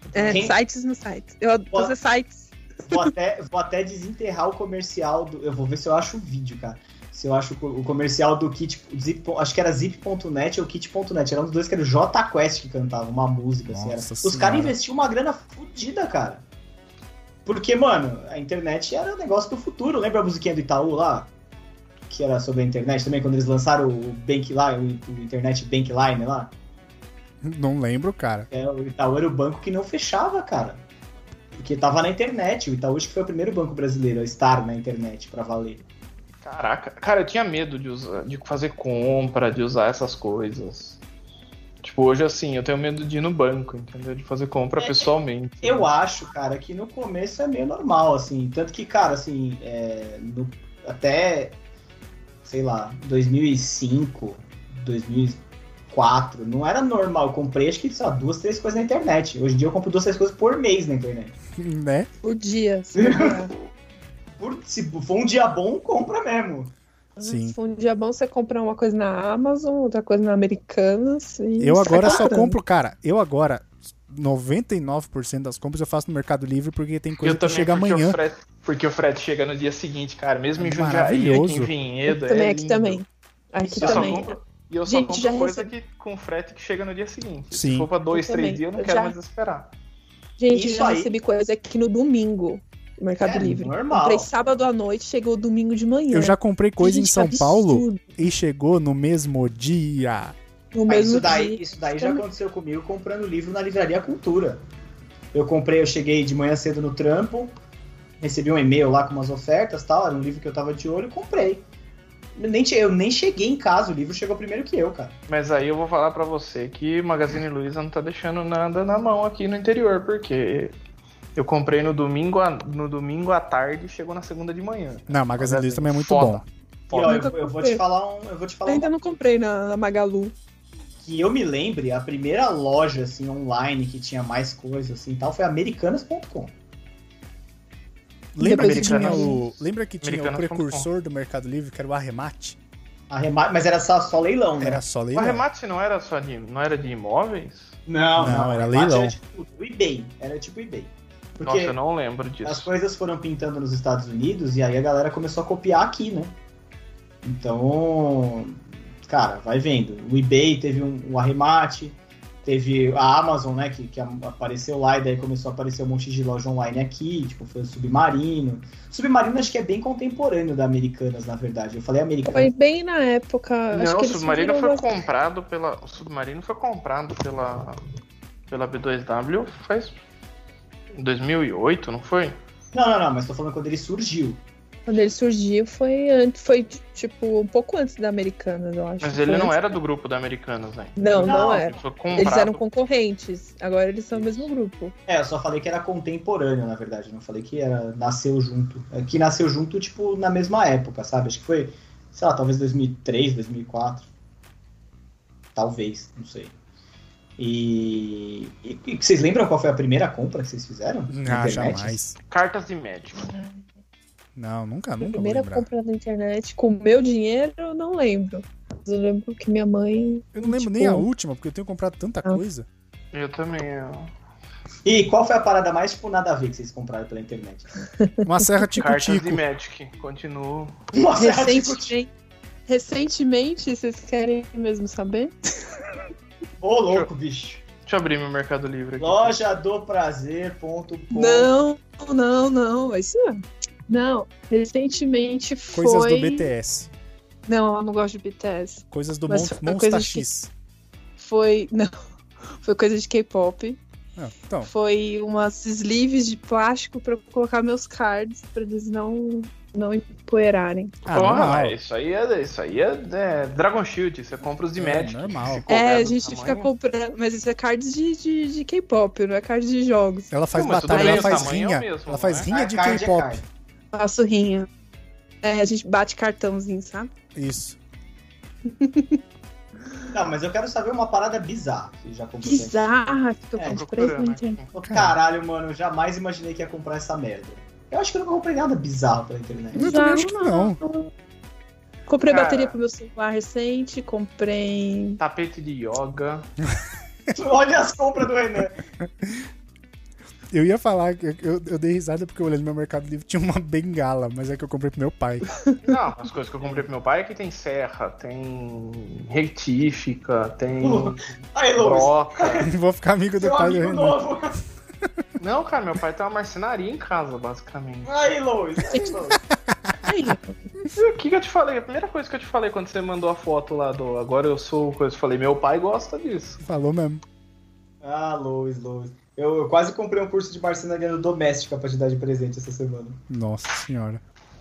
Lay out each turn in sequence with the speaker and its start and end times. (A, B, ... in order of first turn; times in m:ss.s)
0:00.1-0:00.6 A
0:00.2-0:03.0 B
0:02.9-0:16.4 A
0:13.7-0:14.8 C
0:17.4-0:21.3 A
0:22.1-0:26.5 A
0:27.4-0:28.5 C
0:28.5-0:30.8 A
0:31.6-0:35.8 A
0:36.4-0:41.0 D
0:41.8-0:45.9 D
0:44.8-0:45.1 A
0:45.6-0:51.6 A
0:52.4-1:01.4 A
1:01.6-1:02.1 C
1:02.2-1:03.5 B
1:03.0-1:03.4 A
1:04.4-1:06.7 A
1:07.2-1:12.6 B
1:07.2-1:07.6 C
1:11.6-1:18.2 C
1:17.2-1:23.0 D
1:20.6-1:21.7 C
1:22.1-1:24.4 B
1:23.6-1:24.3 A
1:23.8-1:29.7 D
1:24.9-1:25.7 B
1:27.5-1:27.9 C
1:28.1-1:29.2 B
1:30.4-1:38.2 B
1:30.5-1:31.1 A
1:33.2-1:34.3 A
1:36.1-1:40.4 C
1:40.7-1:42.2 B
1:40.9-1:44.6 A
1:45.3-1:47.5 A
1:48.2-1:51.7 A
1:52.4-1:55.2 A
1:55.3-2:00.7 D
2:01.4-2:07.3 D
2:05.1-2:06.5 C
2:06.9-2:09.1 A
2:07.0-2:07.8 B
2:08.7-2:10.4 B
2:11.0-2:16.5 A
2:18.3-2:22.6 C
2:18.4-2:19.4 B
2:18.5-2:20.9 D
2:23.1-2:24.8 A
2:24.6-2:25.4 C
2:25.1-2:27.8 D
2:27.9-2:31.8 A
2:28.2-2:29.2 C
2:31.4-2:32.7 D
2:32.4-2:36.3 A
2:37.2-2:52.5 A
2:52.3-2:54.9 B
2:53.7-2:57.8 D
2:58.5-2:59.9 D
3:00.9-3:02.4 D
3:02.7-3:04.4 A
3:04.9-3:09.8 B
3:09.0-3:12.6 D
3:11.0-3:14.9 B
3:11.2-3:11.8 A
3:15.1-3:24.1 A
3:25.6-3:26.5 A
3:27.4-3:32.0 A
3:31.1-3:32.2 C
3:32.3-3:33.3 D
3:34.4-3:35.7 C
3:35.0-3:41.1 B
3:40.3-3:42.7 C
3:43.1-3:44.1 D
3:44.8-3:47.7 A
3:48.0-3:48.3 B
3:48.2-3:49.4 C
3:48.8-3:50.8 D
3:50.9-3:51.9 A
3:51.2-3:52.1 B
3:52.7-3:55.8 B
3:56.6-3:57.6 A
3:57.8-3:59.4 D
3:59.0-4:01.5 A
4:01.1-4:06.5 B
4:05.7-4:06.9 C
4:07.5-4:10.3 B
4:08.9-4:10.5 C
4:11.2-4:11.9 B
4:12.6-4:13.8 B
4:14.2-4:14.7 C
4:14.6-4:21.0 B
4:21.1-4:21.8 C
4:21.1-4:26.7 D
4:24.8-4:25.7 C
4:25.7-4:30.3 B
4:30.3-4:33.4 C
4:30.5-4:32.5 D
4:30.9-4:31.5 B
4:32.5-4:33.4 A
4:33.9-4:34.7 B
4:35.4-4:37.1 B
4:37.4-4:37.8 C
4:38.7-4:39.2 B
4:40.1-4:43.0 A
4:42.4-4:44.6 B
4:43.6-4:43.8 A
4:43.7-4:44.7 D
4:44.7-4:49.9 A
4:44.8-4:45.2 C
4:49.7-4:50.8 C
4:49.8-4:51.1 B
4:52.1-4:55.2 B
4:52.3-4:52.8 D
4:55.2-4:56.5 D
4:57.3-4:58.8 A
5:00.5-5:05.5 C
5:05.8-5:12.7 D
5:10.8-5:12.7 A
5:12.6-5:14.2 C
5:13.4-5:14.6 A
5:15.4-5:18.3 D
5:18.1-5:19.4 A
5:19.3-5:20.0 C
5:20.1-5:20.6 B
5:21.0-5:26.6 D
5:26.6-5:27.2 C
5:28.0-5:33.2 A
5:33.3-5:34.2 C